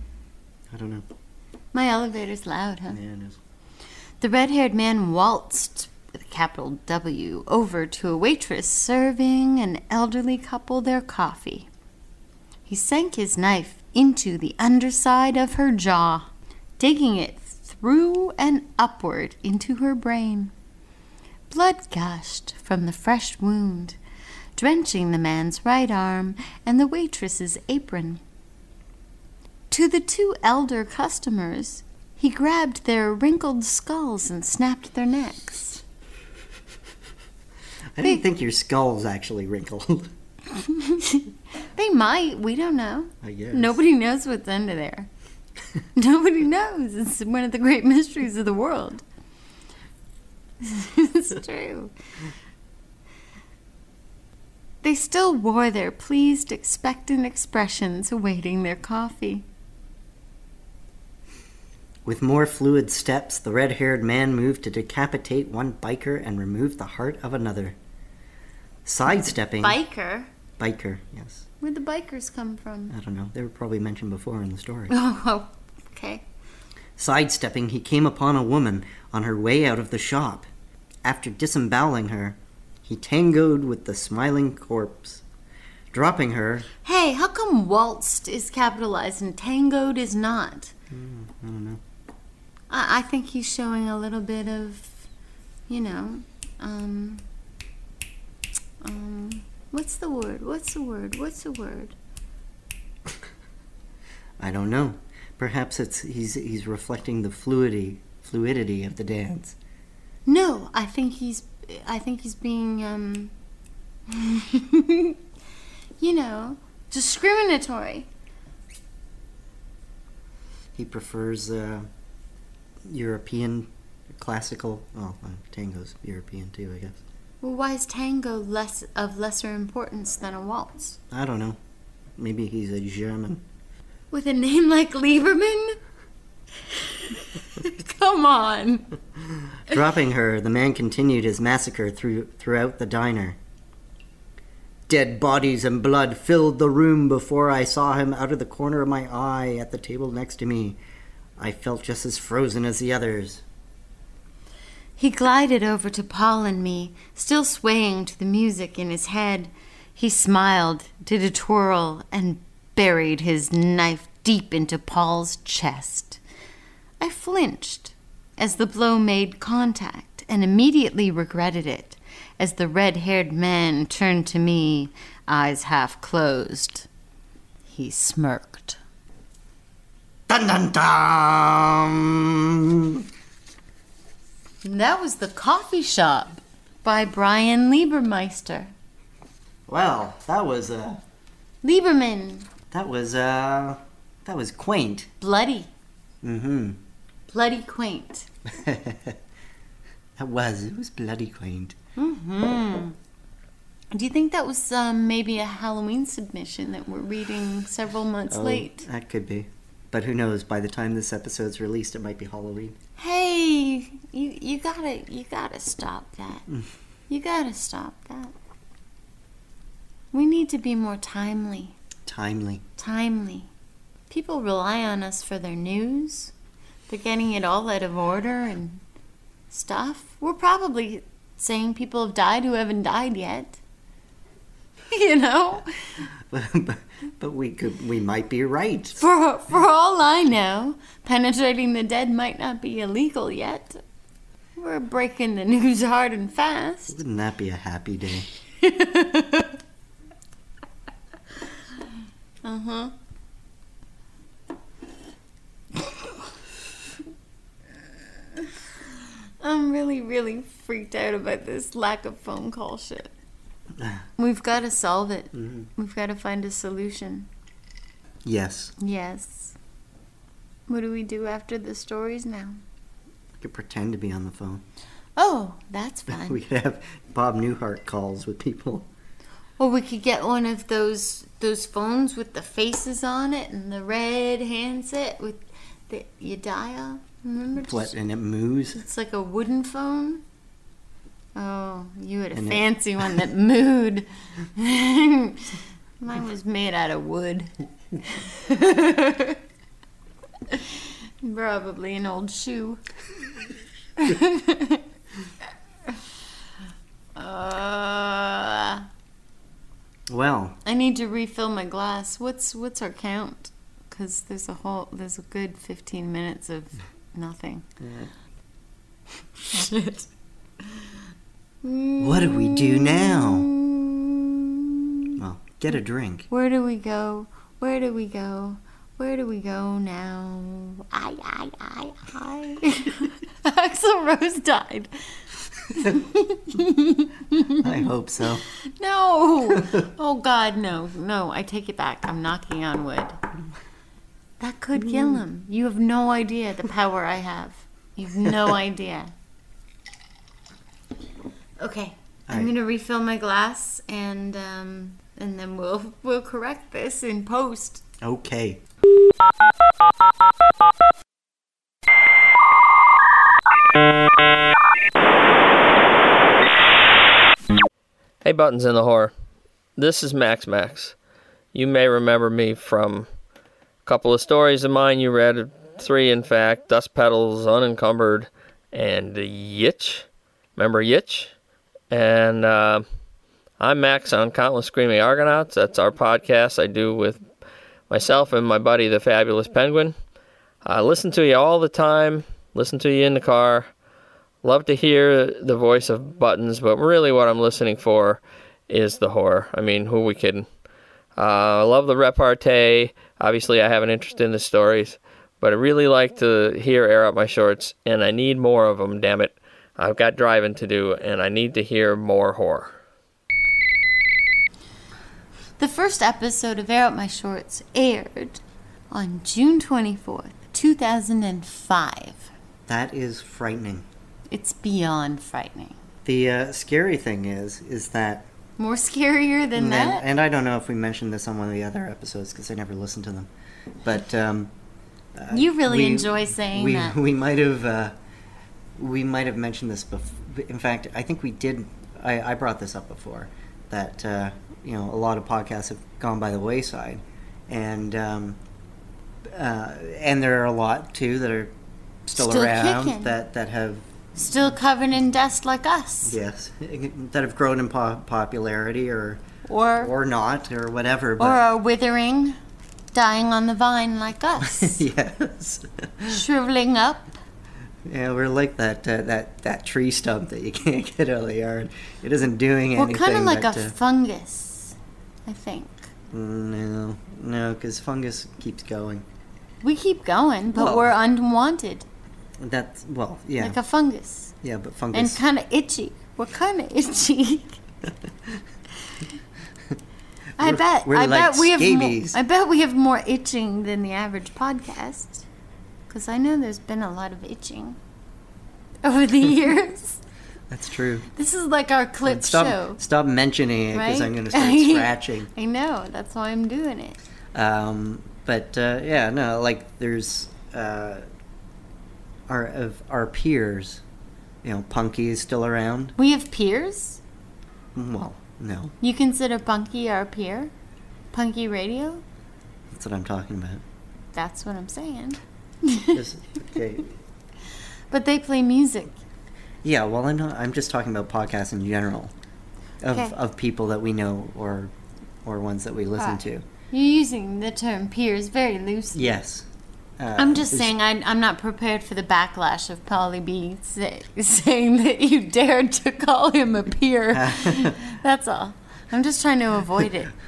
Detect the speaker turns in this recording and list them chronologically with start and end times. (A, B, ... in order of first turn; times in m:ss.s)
0:00.7-0:01.1 A
0:01.7-0:03.0 B
0:02.9-0:03.4 A
0:04.2-0:11.7 B
0:12.7-0:20.5 B
0:21.5-0:24.0 B
0:24.6-0:28.2 B
0:29.7-0:35.8 B
0:37.9-0:40.1 A
0:40.5-0:45.1 B
0:43.2-0:43.8 A
0:46.0-0:49.0 B
0:50.6-0:51.9 B
0:54.8-0:59.5 B
1:02.0-1:07.8 A
1:08.8-1:09.8 A
1:09.6-1:10.3 B
1:10.6-1:11.4 A
1:11.6-1:12.9 B
1:12.9-1:14.9 A
1:14.9-1:16.2 B
1:17.0-1:20.5 A
1:21.0-1:25.2 A
1:25.9-1:26.7 A
1:26.8-1:30.7 B
1:30.9-1:31.8 A
1:32.7-1:35.1 B
1:35.7-1:37.2 B
1:38.8-1:42.0 B
1:44.4-1:49.6 A
1:50.3-1:53.3 B
1:54.1-1:55.2 B
1:56.0-1:58.1 B
2:00.8-2:01.9 A
2:02.9-2:07.0 A
2:07.4-2:11.0 B
2:11.1-2:11.6 A
2:12.2-2:13.4 A
2:14.1-2:15.8 B
2:16.6-2:18.9 B
2:19.7-2:23.4 A
2:24.9-2:30.8 A
2:31.4-2:33.4 A
2:35.0-2:46.2 B
2:47.0-2:56.9 B
2:57.7-2:58.8 B
3:00.3-3:03.1 A
3:04.6-3:08.7 B
3:09.7-3:11.0 A
3:11.6-3:12.5 B
3:12.7-3:15.1 A
3:15.2-3:15.7 B
3:16.2-3:16.8 A
3:17.3-3:18.3 B
3:18.5-3:19.2 A
3:20.2-3:21.8 A
3:22.0-3:23.0 B
3:23.9-3:28.9 B
3:28.3-3:32.8 A
3:33.0-3:36.5 B
3:37.1-3:38.3 B
3:40.1-3:41.8 B
3:42.1-3:42.6 A
3:42.8-3:43.5 B
3:44.1-3:46.3 B
3:46.9-3:48.8 B
3:49.5-3:53.6 B
3:54.9-3:56.0 B
3:56.3-3:59.0 A
3:59.0-4:03.8 B
4:04.6-4:07.0 B
4:06.9-4:08.3 A
4:08.6-4:09.6 B
4:12.4-4:12.9 B
4:19.4-4:23.1 B
4:24.2-4:27.3 B
4:25.4-4:25.7 A
4:28.2-4:28.7 A
4:28.8-4:29.6 B
4:30.7-4:32.6 B
4:33.4-4:34.6 A
4:35.2-4:36.4 B
4:36.1-4:38.9 A
4:39.6-4:47.9 B
4:47.6-4:48.8 A
4:48.7-4:50.2 B
4:51.4-4:59.4 B
4:52.3-4:52.6 A
5:00.5-5:02.8 B
5:04.0-5:04.9 B
5:07.2-5:08.9 B
5:10.1-5:10.6 A
5:10.6-5:17.7 B
5:17.8-5:18.1 A
5:19.4-5:20.1 B
5:20.6-5:20.9 B
5:21.6-5:25.1 B
5:22.0-5:23.5 A
5:25.2-5:26.3 A
5:26.3-5:34.9 B
5:35.7-5:37.8 B
5:37.5-5:38.5 A
5:38.6-5:43.2 B
5:44.4-5:49.1 B
5:51.6-5:57.8 B
5:58.0-5:58.6 A
6:08.2-6:09.1 C
6:09.8-6:11.0 C
6:11.5-6:13.1 C
6:13.9-6:20.1 C
6:20.6-6:21.3 C
6:21.9-6:22.8 C
6:23.6-6:27.2 C
6:27.9-6:29.9 C
6:30.6-6:33.7 C
6:34.4-6:40.5 C
6:41.2-6:52.7 C
6:55.6-7:02.3 B
7:02.7-7:03.9 A
7:04.3-7:05.8 B
7:06.0-7:08.3 A
7:08.6-7:10.1 B
7:09.6-7:13.3 A
7:13.8-7:14.5 A
7:15.2-7:18.0 A
7:15.3-7:17.0 B
7:18.8-7:28.4 A
7:29.3-7:31.5 A
7:32.1-7:34.0 A
7:32.2-7:33.2 B
7:34.2-7:36.2 B
7:36.0-7:39.2 A
7:39.4-7:39.9 B
7:39.8-7:41.4 A
7:41.2-7:42.4 B
7:42.9-7:44.8 B
7:44.4-7:46.2 A
7:46.0-7:47.2 B
7:47.8-7:53.8 A
7:52.8-7:55.9 B
7:56.1-7:59.1 A
7:59.6-8:01.9 B
8:00.6-8:00.9 A
8:02.4-8:03.6 A
8:03.4-8:04.3 B
8:04.4-8:05.2 A
8:04.9-8:07.6 B
8:10.4-8:12.2 A
8:10.4-8:15.3 B
8:15.9-8:17.8 B
8:18.8-8:20.0 B
8:20.5-8:21.1 A
8:21.1-8:22.8 B
8:22.0-8:25.3 A
8:23.7-8:27.0 B
8:27.3-8:31.0 A
8:32.3-8:33.8 A
8:34.4-8:36.0 A
8:36.0-8:37.0 B
8:37.8-8:38.7 A
8:38.8-8:40.5 B
8:41.1-8:42.0 B
8:42.7-8:43.6 A
8:44.1-8:46.0 B
8:45.9-8:46.9 A
8:47.9-8:49.0 B
8:49.6-8:52.1 A
8:52.8-8:54.7 A
8:52.9-8:53.2 B
8:55.2-8:56.5 A
8:56.0-8:59.2 B
8:58.9-8:59.5 A
9:00.0-9:00.7 A
9:00.2-9:10.1 B
9:07.1-9:07.8 A